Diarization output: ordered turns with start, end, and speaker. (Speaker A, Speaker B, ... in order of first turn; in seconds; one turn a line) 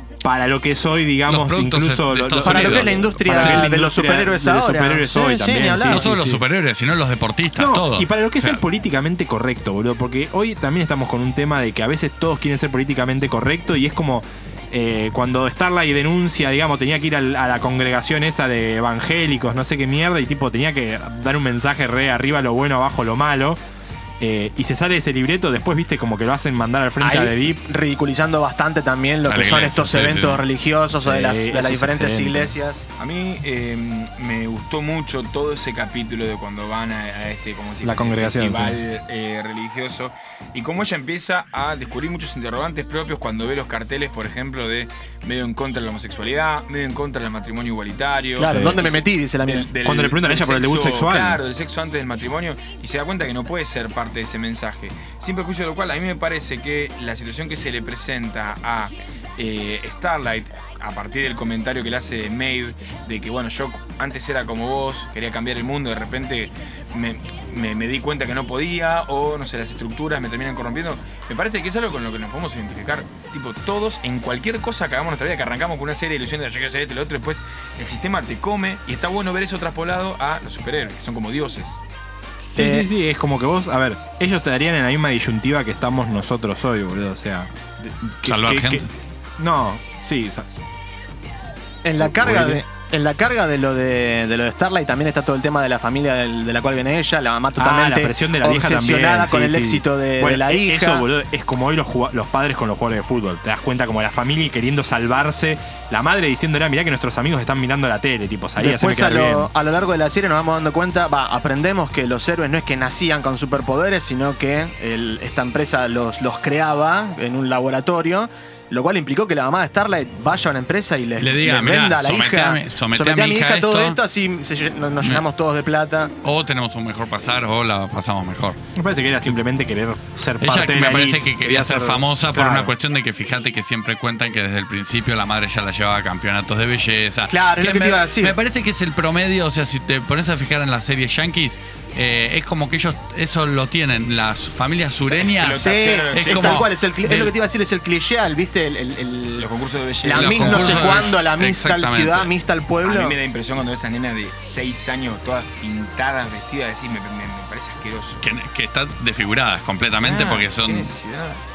Speaker A: 0.2-6.4
Speaker B: 1.3-3.7
Speaker C: 2.4-6.1
Speaker B: 5.8-8.6
Speaker A: 7.5-23.6
Speaker A: 24.2-27.6
Speaker C: 27.0-32.9
Speaker B: 29.3-30.4
Speaker A: 31.0-32.5
Speaker D: 33.0-81.8
Speaker A: 37.8-38.8
Speaker C: 48.4-49.7
Speaker A: 48.5-48.8
Speaker A: 49.8-51.4
Speaker A: 82.5-88.9
Speaker C: 82.5-82.9
Speaker B: 88.2-88.9
Speaker A: 89.4-90.5
Speaker C: 91.8-101.1
Speaker A: 92.0-92.6
Speaker A: 97.6-109.5
Speaker C: 108.6-126.1
Speaker B: 121.2-124.0
Speaker B: 126.2-128.6
Speaker A: 128.7-132.7
Speaker B: 130.4-147.3
Speaker C: 137.3-138.4
Speaker D: 145.0-146.7
Speaker C: 145.4-149.5
Speaker D: 149.4-151.1
Speaker C: 150.0-153.2
Speaker B: 150.1-152.3
Speaker D: 152.8-158.2
Speaker B: 158.2-160.9
Speaker D: 160.0-161.4